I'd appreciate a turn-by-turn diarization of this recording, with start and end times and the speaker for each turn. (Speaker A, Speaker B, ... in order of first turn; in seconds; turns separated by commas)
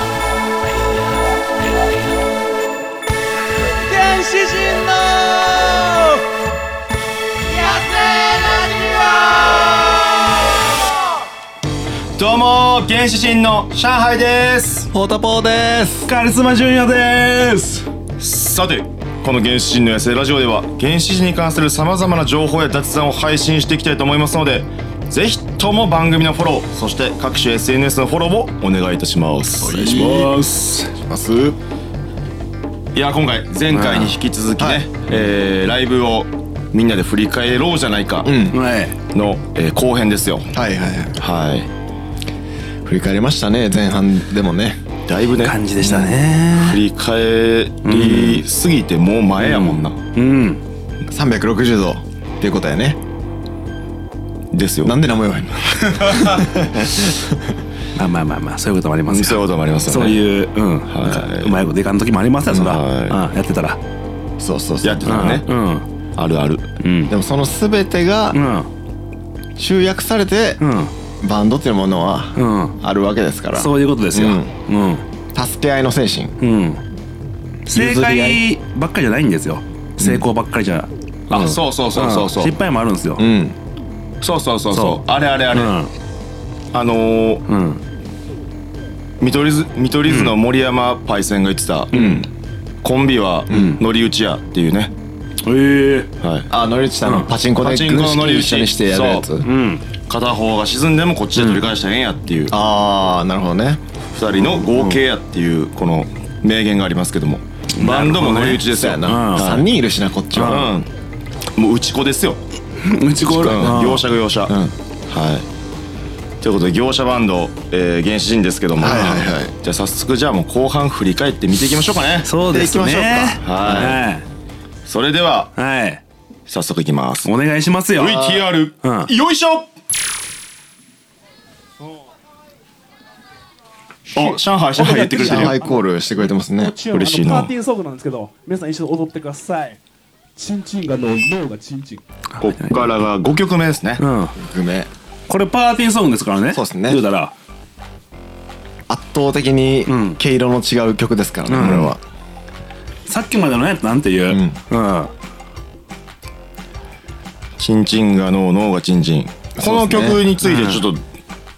Speaker A: 3.7-6.2, Speaker A: 7.5-10.1, Speaker B: 12.2-14.9, Speaker C: 14.9-16.1, Speaker D: 16.1-17.9, Speaker B: 18.2-30.3, Speaker C: 29.6-30.3, Speaker D: 29.6-30.9, Speaker C: 31.0-31.6, Speaker B: 32.9-38.3, Speaker D: 33.7-34.1, Speaker C: 34.6-34.8, Speaker C: 38.2-38.6, Speaker D: 38.5-39.0, Speaker B: 39.1-40.5, Speaker C: 40.5-41.2, Speaker B: 41.2-41.7, Speaker C: 42.8-44.8, Speaker B: 45.1-50.0, Speaker D: 45.4-46.8, Speaker D: 47.8-48.4, Speaker D: 49.4-50.6, Speaker C: 51.1-53.0, Speaker B: 54.5-55.0, Speaker C: 54.8-57.5, Speaker B: 55.9-56.5, Speaker D: 58.0-63.8, Speaker B: 59.1-60.2, Speaker B: 60.9-61.6, Speaker B: 62.5-63.2, Speaker C: 64.4-65.4, Speaker B: 64.8-65.5, Speaker D: 65.0-65.9, Speaker B: 66.2-66.7, Speaker D: 66.8-67.1, Speaker C: 67.1-68.4, Speaker D: 68.3-68.7, Speaker C: 69.6-70.6, Speaker D: 70.6-70.9, Speaker C: 71.2-74.5, Speaker D: 72.3-72.8, Speaker D: 73.5-75.0, Speaker C: 75.3-76.4, Speaker D: 76.4-76.8, Speaker D: 77.7-83.2, Speaker C: 77.7-78.4, Speaker B: 81.3-82.5, Speaker C: 83.2-83.5, Speaker B: 84.2-85.8, Speaker D: 84.7-85.9, Speaker B: 86.7-87.4, Speaker D: 87.5-87.8, Speaker B: 89.2-92.1, Speaker D: 90.1-90.3, Speaker D: 91.9-92.2, Speaker C: 91.9-92.3, Speaker B: 92.8-94.9, Speaker C: 93.5-93.8, Speaker D: 93.5-93.8, Speaker D: 95.4-96.1, Speaker B: 96.2-96.5, Speaker C: 96.5-99.5, Speaker D: 97.0-97.3, Speaker B: 97.6-99.3, Speaker D: 99.4-99.8, Speaker B: 100.1-102.5, Speaker C: 101.4-101.6, Speaker C: 102.5-103.8, Speaker B: 104.1-109.7, Speaker D: 104.4-105.0, Speaker D: 107.7-109.6, Speaker C: 108.6-110.7, Speaker D: 110.3-110.7, Speaker B: 110.5-110.9, Speaker B: 111.5-112.4, Speaker D: 112.8-114.0, Speaker B: 113.3-114.5, Speaker C: 114.5-114.7, Speaker B: 115.1-115.5, Speaker B: 116.4-122.3, Speaker C: 118.8-119.5, Speaker D: 122.2-124.2, Speaker C: 122.5-123.9, Speaker B: 123.4-124.0, Speaker B: 124.8-125.5, Speaker D: 125.5-126.0, Speaker B: 126.5-127.3, Speaker D: 127.2-129.1, Speaker B: 128.0-129.7, Speaker B: 134.1-135.6, Speaker E: 134.2-135.9, Speaker C: 134.9-136.7, Speaker E: 136.5-139.8, Speaker B: 136.9-137.5, Speaker E: 140.3-142.0, Speaker D: 142.4-142.8, Speaker B: 142.4-144.0, Speaker D: 144.0-144.3, Speaker C: 144.3-144.9, Speaker D: 145.3-147.3, Speaker C: 146.5-147.0, Speaker C: 148.9-152.0, Speaker D: 149.8-150.2, Speaker D: 151.5-151.9, Speaker B: 151.6-151.9, Speaker D: 153.1-155.1, Speaker C: 154.3-154.6, Speaker B: 157.6-161.0, Speaker C: 159.6-160.2, Speaker D: 160.4-160.8